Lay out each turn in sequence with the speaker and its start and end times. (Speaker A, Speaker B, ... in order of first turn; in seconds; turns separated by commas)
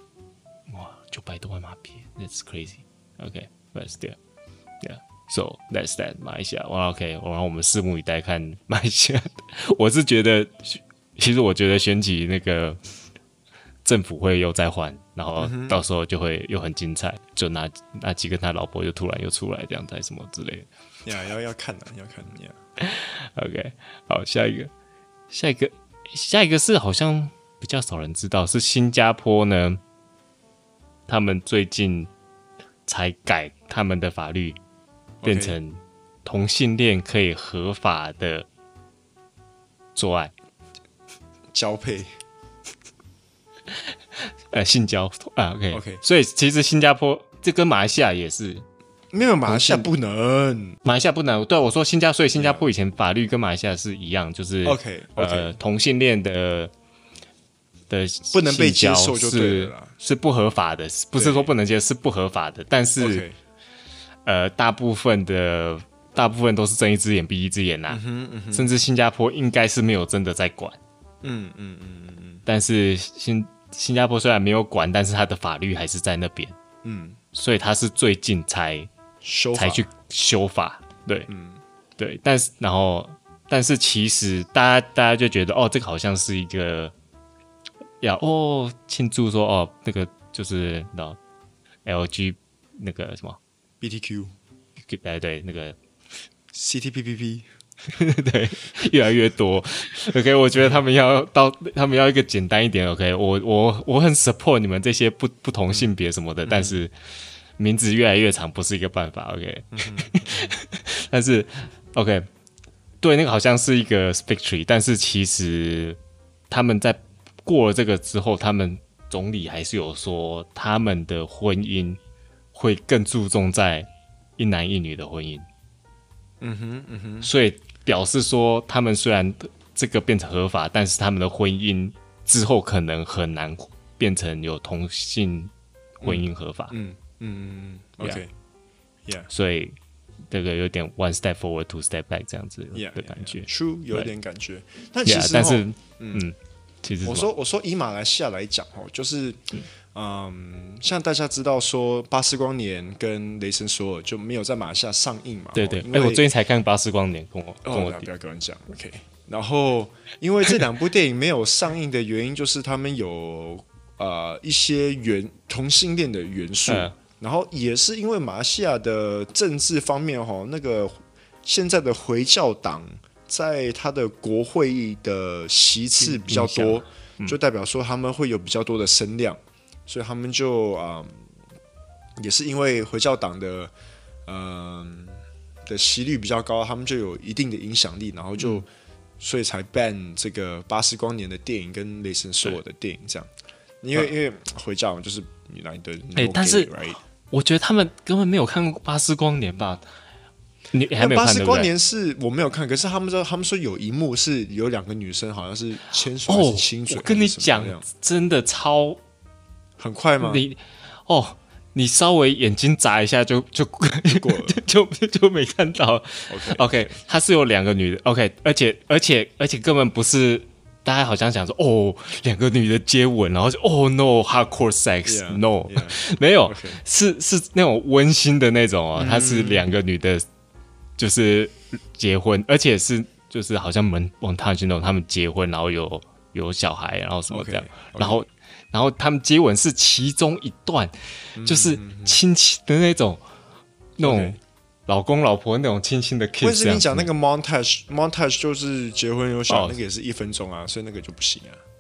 Speaker A: 0.7-4.2, Speaker A: 4.8-12.8, Speaker A: 13.8-20.7, Speaker B: 15.4-15.8, Speaker B: 21.1-22.6, Speaker A: 22.8-24.7, Speaker A: 25.3-29.8, Speaker A: 31.1-32.1, Speaker A: 32.9-34.6, Speaker B: 35.2-35.6, Speaker A: 35.2-38.5, Speaker A: 40.0-40.3, Speaker B: 41.5-42.1, Speaker A: 44.2-48.6, Speaker B: 45.7-46.0, Speaker B: 49.1-50.8, Speaker A: 49.5-49.9, Speaker A: 50.8-56.7, Speaker B: 52.4-52.7, Speaker B: 54.6-55.6, Speaker A: 57.9-63.2, Speaker B: 58.3-59.9, Speaker B: 61.2-61.5, Speaker B: 63.0-63.4, Speaker A: 64.3-68.0, Speaker B: 67.9-68.7, Speaker A: 68.5-70.8, Speaker B: 71.2-72.4, Speaker A: 72.5-76.6, Speaker B: 76.8-77.2, Speaker A: 77.3-78.9, Speaker B: 79.2-79.9, Speaker A: 79.5-81.3, Speaker B: 81.3-81.6, Speaker A: 82.0-86.9, Speaker A: 88.0-91.2, Speaker A: 91.8-93.4, Speaker B: 93.8-94.3, Speaker A: 94.8-95.8, Speaker B: 96.5-97.5, Speaker A: 97.9-106.9, Speaker B: 100.5-100.8, Speaker B: 106.5-106.8, Speaker A: 107.6-112.3, Speaker B: 109.7-110.5, Speaker A: 113.0-116.0, Speaker A: 116.5-122.0, Speaker A: 122.5-125.5, Speaker B: 126.4-127.3, Speaker A: 127.2-135.5, Speaker B: 136.0-138.3, Speaker A: 136.0-136.8, Speaker A: 139.3-139.8, Speaker A: 140.3-144.1, Speaker B: 142.7-146.2, Speaker A: 145.1-147.3, Speaker B: 147.0-156.2, Speaker A: 155.6-158.1, Speaker B: 157.6-181.2, Speaker A: 166.7-167.0, Speaker A: 176.0-177.4, Speaker B: 182.2-183.7, Speaker B: 184.3-188.7, Speaker B: 189.2-193.3, Speaker B: 193.8-197.0, Speaker A: 196.2-196.7, Speaker A: 197.3-199.8, Speaker A: 200.7-201.7, Speaker B: 201.0-207.9, Speaker A: 206.3-209.0, Speaker B: 209.8-210.4, Speaker A: 210.2-230.2, Speaker B: 214.1-214.6, Speaker B: 216.3-217.0, Speaker B: 225.1-226.8, Speaker B: 229.0-229.7, Speaker A: 231.0-243.2, Speaker B: 237.3-238.2, Speaker B: 241.4-242.2, Speaker A: 244.0-247.1, Speaker B: 244.0-244.4, Speaker B: 246.4-251.6, Speaker A: 249.5-249.8